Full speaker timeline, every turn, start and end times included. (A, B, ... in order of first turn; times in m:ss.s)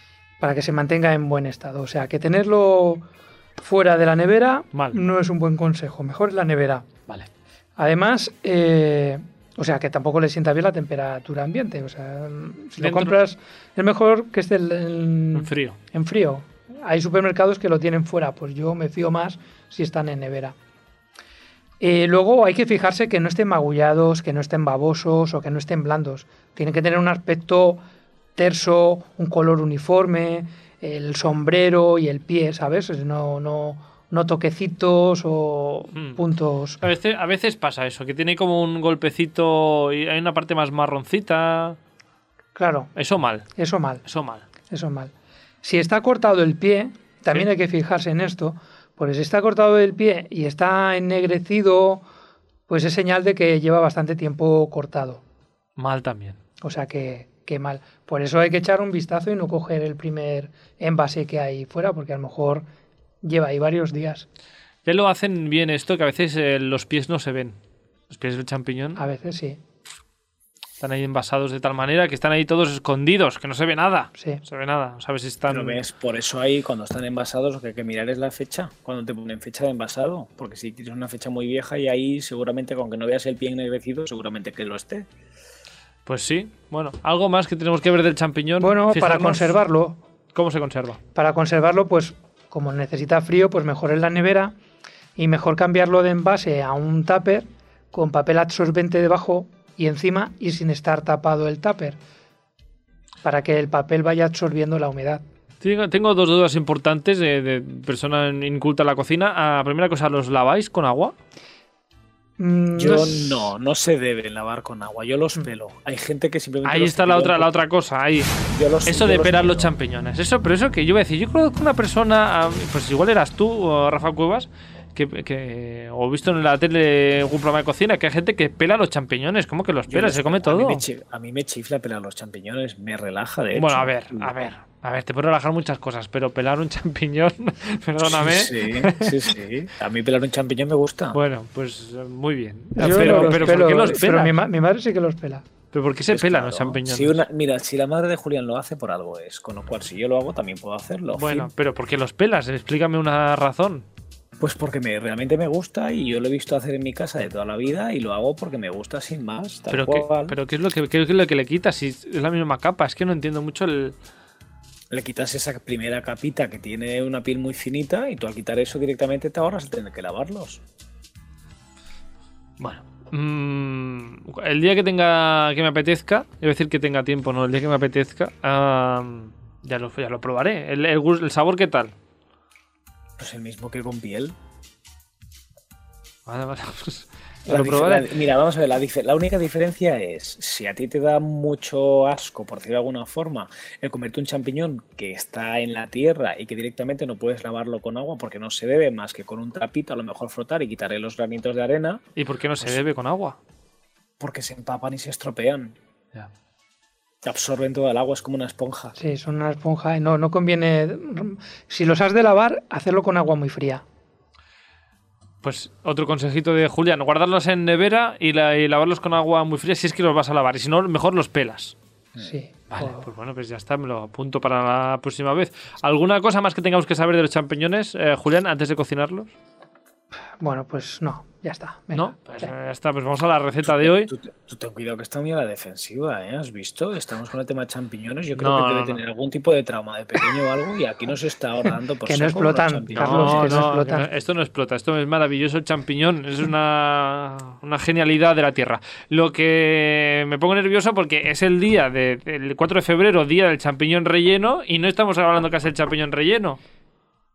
0:00.4-0:03.1 A
0:03.6-0:06.9 A
0:04.7-0:05.0 B
0:07.8-0:20.6 A
0:12.8-0:13.1 B
0:15.3-0:15.8 B
0:21.8-0:27.8 A
0:28.4-0:36.8 A
0:35.9-0:36.2 B
0:36.8-0:41.8 B
0:42.6-0:42.9 A
0:43.0-0:43.5 B
0:43.6-0:44.0 A
0:44.0-0:44.4 B
0:44.7-0:45.1 A
0:45.6-0:52.0 A
0:52.7-0:55.2 A
0:55.8-0:56.4 B
0:56.6-1:02.7 A
1:03.2-1:04.3 A
1:04.8-1:07.6 B
1:08.1-1:09.0 B
1:09.0-1:09.6 A
1:10.8-1:15.8 B
1:15.5-1:25.1 C
1:26.1-1:29.6 B
1:28.6-1:30.0 A
1:30.4-1:31.0 B
1:31.2-1:34.5 A
1:35.2-1:42.0 A
1:43.2-1:45.2 A
1:45.6-1:51.2 B
1:52.4-1:53.5 A
1:52.8-1:57.5 C
1:56.6-2:10.8 B
1:58.5-1:59.7 C
2:09.9-2:14.3 C
2:13.5-2:19.3 B
2:18.0-2:21.2 C
2:21.1-2:24.4 B
2:22.8-2:25.4 A
2:22.8-2:23.9 C
2:25.7-2:27.2 B
2:26.1-2:31.5 C
2:31.1-2:33.9 B
2:34.4-2:40.4 C
2:39.7-2:44.0 B
2:44.9-2:50.6 C
2:52.6-3:01.9 B
3:03.2-3:04.4 C
3:06.3-3:08.1 B
3:07.5-3:22.0 C
3:22.2-3:23.4 B
3:24.2-3:25.8 C
3:27.2-3:29.0 C
3:29.0-3:33.8 A
3:35.4-3:41.8 B
3:42.2-3:43.1 A
3:42.7-3:49.3 B
3:50.4-3:52.5 A
3:51.9-3:54.1 B
3:53.7-4:03.7 C
3:58.4-3:59.0 B
4:02.0-4:04.1 A
4:03.0-4:16.6 B